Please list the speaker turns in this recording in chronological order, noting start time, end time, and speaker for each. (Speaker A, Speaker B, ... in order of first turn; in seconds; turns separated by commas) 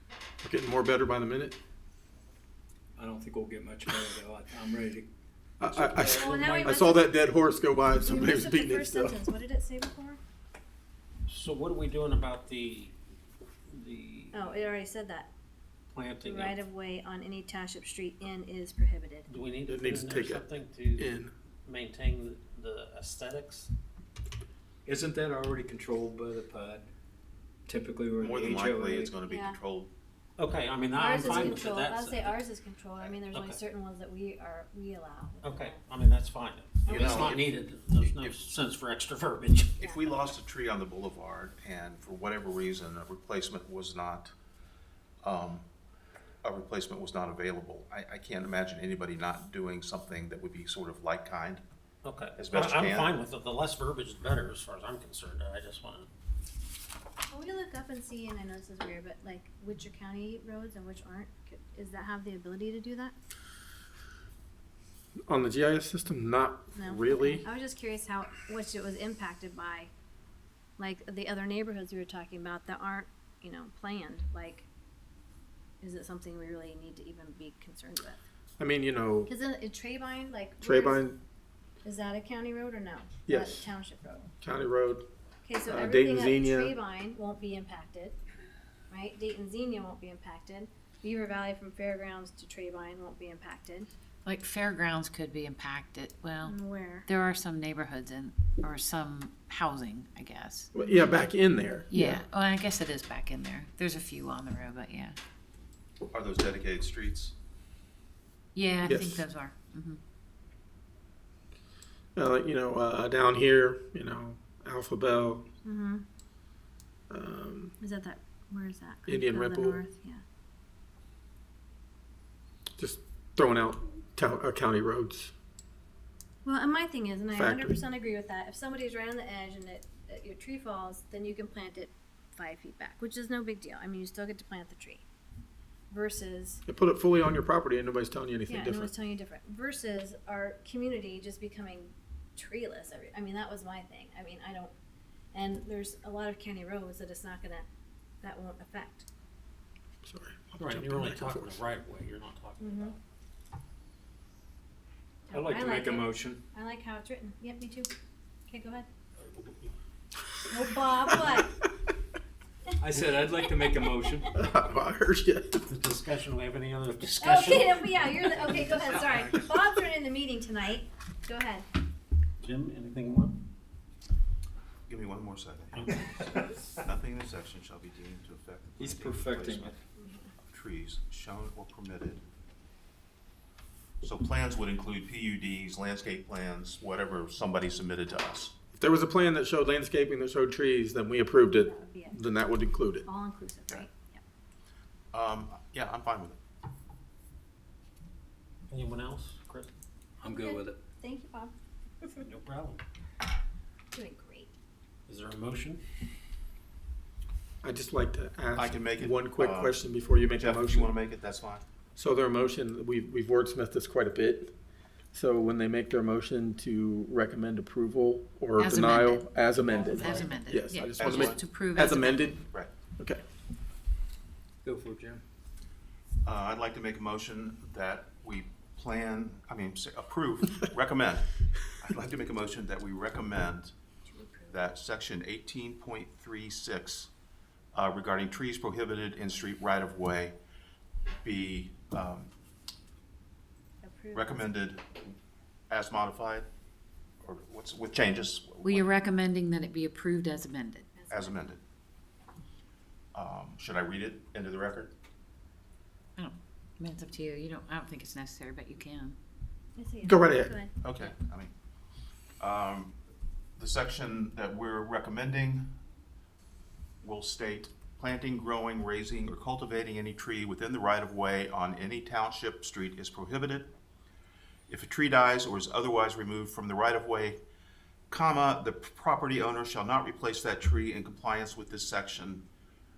Speaker A: 0.4-1.6, Speaker B: 3.0-5.1, Speaker A: 5.6-9.2, Speaker C: 5.7-6.8, Speaker D: 6.0-7.2, Speaker D: 7.9-10.2, Speaker C: 11.3-12.9, Speaker C: 13.7-14.7, Speaker D: 14.3-15.3, Speaker C: 15.9-16.6, Speaker D: 16.2-19.3, Speaker C: 19.3-21.1, Speaker A: 19.7-21.3, Speaker C: 21.6-23.7, Speaker B: 24.9-26.9, Speaker B: 27.6-29.1, Speaker E: 28.2-29.9, Speaker D: 29.3-29.6, Speaker C: 30.4-32.4, Speaker D: 30.9-35.8, Speaker E: 33.0-33.2, Speaker C: 33.3-33.6, Speaker C: 35.4-39.8, Speaker D: 36.8-37.4, Speaker E: 36.9-38.5, Speaker E: 39.8-44.3, Speaker D: 39.8-40.1, Speaker E: 45.2-45.7, Speaker E: 46.4-51.6, Speaker C: 52.0-56.1, Speaker E: 52.4-53.2, Speaker D: 57.3-63.1, Speaker A: 65.3-67.4, Speaker D: 66.7-69.9, Speaker D: 70.8-74.7, Speaker D: 75.8-78.2, Speaker A: 78.6-79.3, Speaker D: 79.3-81.0, Speaker A: 80.6-81.2, Speaker D: 81.8-84.3, Speaker A: 83.3-83.7, Speaker A: 84.4-85.1, Speaker D: 85.4-88.2, Speaker A: 85.7-86.8, Speaker D: 88.9-93.9, Speaker F: 94.2-96.5, Speaker D: 96.4-97.1, Speaker F: 97.1-100.7, Speaker A: 100.7-102.2, Speaker D: 100.8-101.1, Speaker F: 101.9-105.2, Speaker E: 106.1-107.3, Speaker F: 108.5-110.0, Speaker A: 108.8-109.2, Speaker A: 112.2-115.5, Speaker D: 115.6-116.0, Speaker A: 117.1-117.7, Speaker D: 117.8-120.2, Speaker A: 119.1-119.8, Speaker A: 122.8-125.3, Speaker D: 126.4-135.0, Speaker A: 127.3-127.8, Speaker D: 135.9-136.6, Speaker A: 136.7-138.9, Speaker D: 138.5-144.7, Speaker D: 145.3-147.7, Speaker D: 148.2-149.1, Speaker A: 150.0-151.5, Speaker C: 150.6-152.9, Speaker D: 152.6-152.9, Speaker D: 155.3-157.9, Speaker B: 155.3-156.4, Speaker D: 158.5-158.9, Speaker C: 159.3-159.7, Speaker D: 160.4-161.5, Speaker B: 162.8-164.3, Speaker A: 164.3-165.7, Speaker C: 165.6-169.3, Speaker D: 167.2-171.6, Speaker C: 172.4-173.4, Speaker E: 174.9-176.0, Speaker C: 175.8-176.5, Speaker E: 176.6-179.7, Speaker B: 178.8-179.7, Speaker D: 180.0-180.3, Speaker E: 180.5-182.2, Speaker E: 184.0-188.5, Speaker A: 188.8-193.1, Speaker D: 191.5-192.2, Speaker D: 193.0-194.2, Speaker E: 195.1-196.4, Speaker C: 198.7-199.7, Speaker B: 200.2-200.8, Speaker D: 200.2-201.5, Speaker C: 202.1-202.8, Speaker D: 203.9-204.5, Speaker C: 205.1-205.8, Speaker A: 207.6-210.9, Speaker E: 208.5-209.8, Speaker E: 210.3-211.6, Speaker A: 211.9-214.5, Speaker A: 215.1-222.4, Speaker F: 218.6-219.3, Speaker B: 219.7-220.4, Speaker F: 219.8-222.4, Speaker E: 221.0-221.4, Speaker E: 222.4-222.7, Speaker B: 224.6-225.2, Speaker E: 226.2-233.7, Speaker D: 234.1-234.7, Speaker E: 234.5-237.1, Speaker E: 237.7-240.4, Speaker E: 241.2-242.3, Speaker D: 243.8-244.5, Speaker E: 244.1-245.1, Speaker E: 245.7-246.5, Speaker E: 247.2-249.0, Speaker F: 248.6-250.9, Speaker D: 250.9-251.4, Speaker E: 251.1-251.6, Speaker E: 253.1-254.9, Speaker F: 256.2-259.1, Speaker D: 259.8-260.7, Speaker A: 260.0-260.5, Speaker E: 260.8-261.5, Speaker E: 262.4-263.0, Speaker E: 263.6-265.7, Speaker E: 267.0-273.7, Speaker E: 274.7-277.4, Speaker E: 278.1-282.5